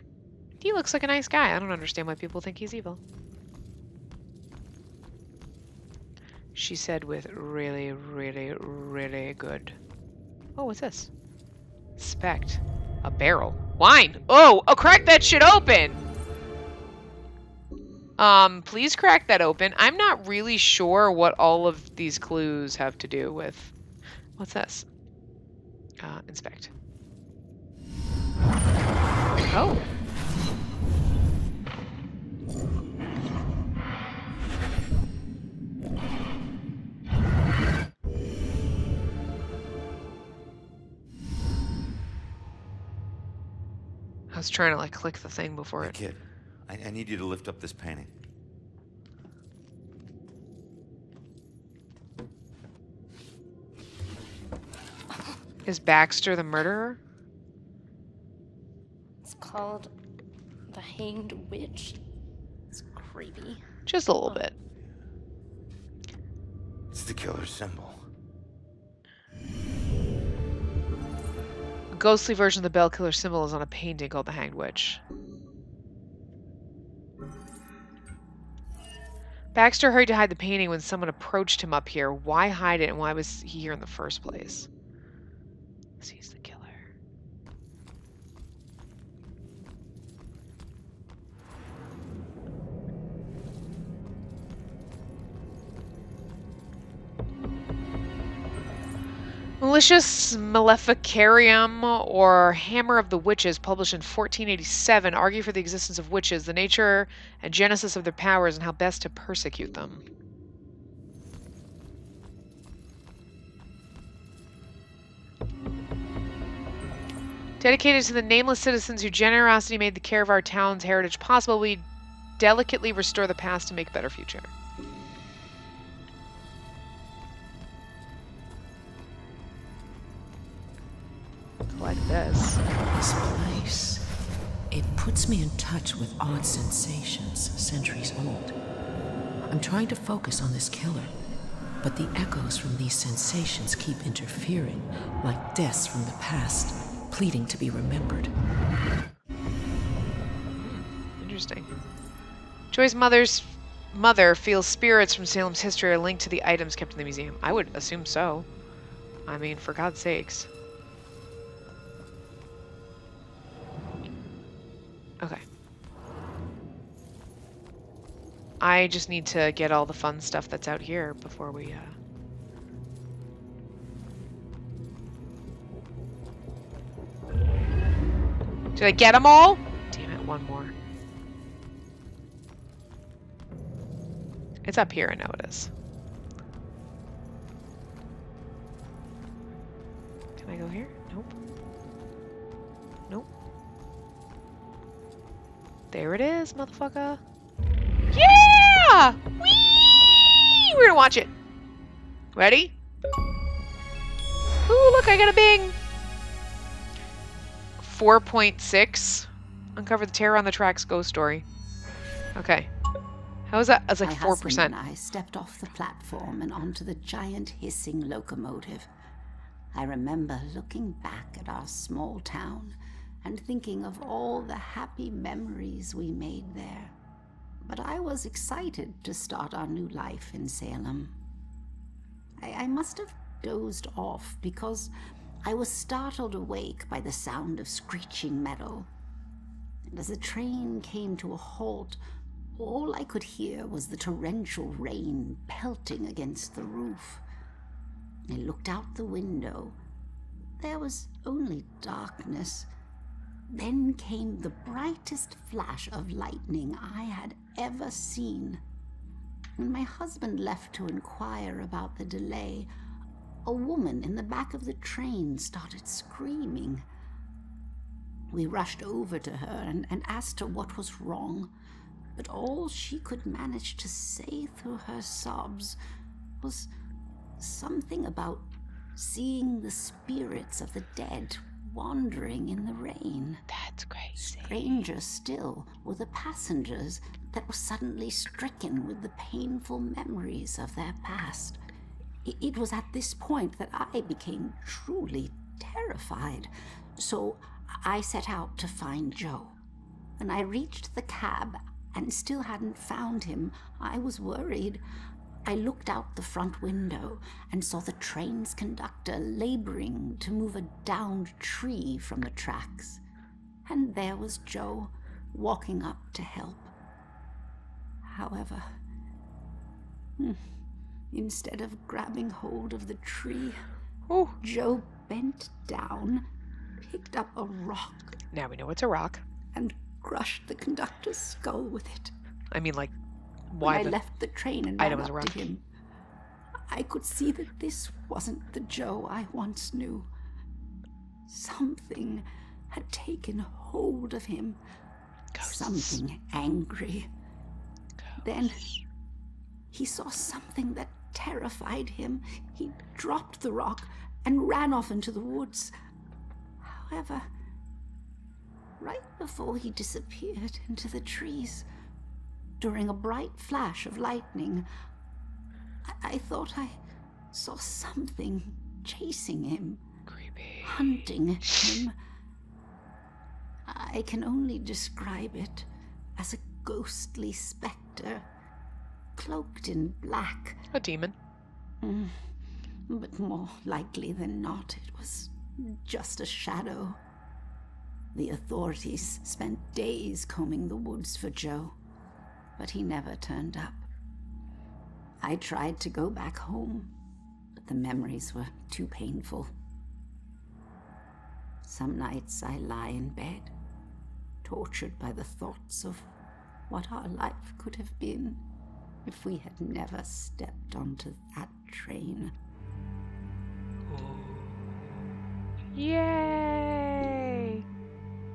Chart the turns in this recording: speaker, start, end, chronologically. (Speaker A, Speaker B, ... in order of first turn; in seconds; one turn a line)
Speaker A: 0.6-3.0
Speaker A: 6.5-9.8
Speaker A: 10.6-11.1
Speaker A: 12.0-16.1
Speaker A: 18.2-23.7
Speaker A: 24.4-24.9
Speaker A: 26.0-26.7
Speaker A: 29.5-29.8
Speaker A: 44.3-45.9
Speaker B: 45.8-48.1
Speaker A: 55.6-57.0
Speaker C: 59.2-59.9
Speaker C: 60.7-62.0
Speaker C: 62.7-63.6
Speaker A: 63.9-64.5
Speaker B: 66.9-68.0
Speaker A: 71.9-75.0
Speaker A: 79.5-84.7
Speaker A: 86.0-86.9
Speaker A: 99.6-110.0
Speaker A: 117.6-121.8
Speaker A: 122.4-124.5
Speaker A: 131.7-132.6
Speaker D: 132.9-134.1
Speaker D: 134.7-138.5
Speaker D: 139.5-141.1
Speaker D: 141.8-148.3
Speaker A: 150.6-151.7
Speaker A: 152.7-158.5
Speaker A: 159.3-160.5
Speaker A: 168.6-172.0
Speaker A: 178.8-180.7
Speaker A: 184.6-185.7
Speaker A: 190.4-191.3
Speaker A: 195.9-197.2
Speaker A: 198.1-201.3
Speaker A: 202.3-202.7
Speaker A: 204.7-205.8
Speaker A: 207.8-211.4
Speaker A: 212.3-212.7
Speaker A: 213.5-214.8
Speaker E: 214.0-218.9
Speaker E: 219.7-226.9
Speaker E: 227.6-231.2
Speaker E: 232.4-234.9
Speaker E: 235.4-238.9
Speaker E: 239.9-242.0
Speaker E: 242.6-247.2
Speaker E: 248.3-249.8
Speaker E: 250.6-252.7
Speaker E: 253.5-258.6
Speaker E: 259.6-262.7
Speaker E: 263.4-266.8
Speaker E: 268.3-271.5
Speaker E: 272.1-275.8
Speaker E: 276.4-276.7
Speaker E: 277.4-283.4
Speaker A: 283.5-284.7
Speaker E: 284.1-291.6
Speaker E: 292.2-299.6
Speaker E: 300.2-304.8
Speaker E: 305.4-313.0
Speaker E: 313.6-316.7
Speaker E: 318.0-318.8
Speaker E: 320.2-320.4
Speaker E: 321.1-323.6
Speaker A: 324.1-324.4
Speaker E: 324.4-326.3
Speaker E: 326.8-328.2
Speaker A: 328.3-329.2
Speaker E: 329.5-332.1
Speaker A: 332.5-332.9
Speaker A: 333.5-334.0
Speaker E: 333.6-335.6
Speaker A: 334.8-335.5
Speaker E: 336.7-340.1
Speaker E: 341.3-344.6
Speaker A: 345.3-346.0
Speaker E: 345.4-347.1
Speaker A: 348.0-348.8
Speaker E: 348.2-348.6
Speaker E: 349.7-355.7
Speaker E: 356.6-357.3
Speaker E: 358.8-361.7
Speaker E: 362.6-364.7
Speaker E: 365.8-366.8
Speaker E: 367.3-369.8
Speaker A: 370.1-371.6
Speaker E: 370.6-371.9
Speaker E: 373.6-378.3
Speaker E: 379.1-380.6
Speaker A: 380.7-381.1
Speaker E: 381.8-382.3
Speaker E: 382.9-387.0
Speaker E: 388.1-391.8
Speaker E: 392.6-393.9
Speaker E: 395.2-396.9
Speaker E: 397.6-399.5
Speaker E: 401.6-403.5
Speaker E: 404.4-406.1
Speaker E: 406.7-408.4
Speaker E: 409.0-412.4
Speaker A: 413.9-414.8
Speaker A: 415.7-417.6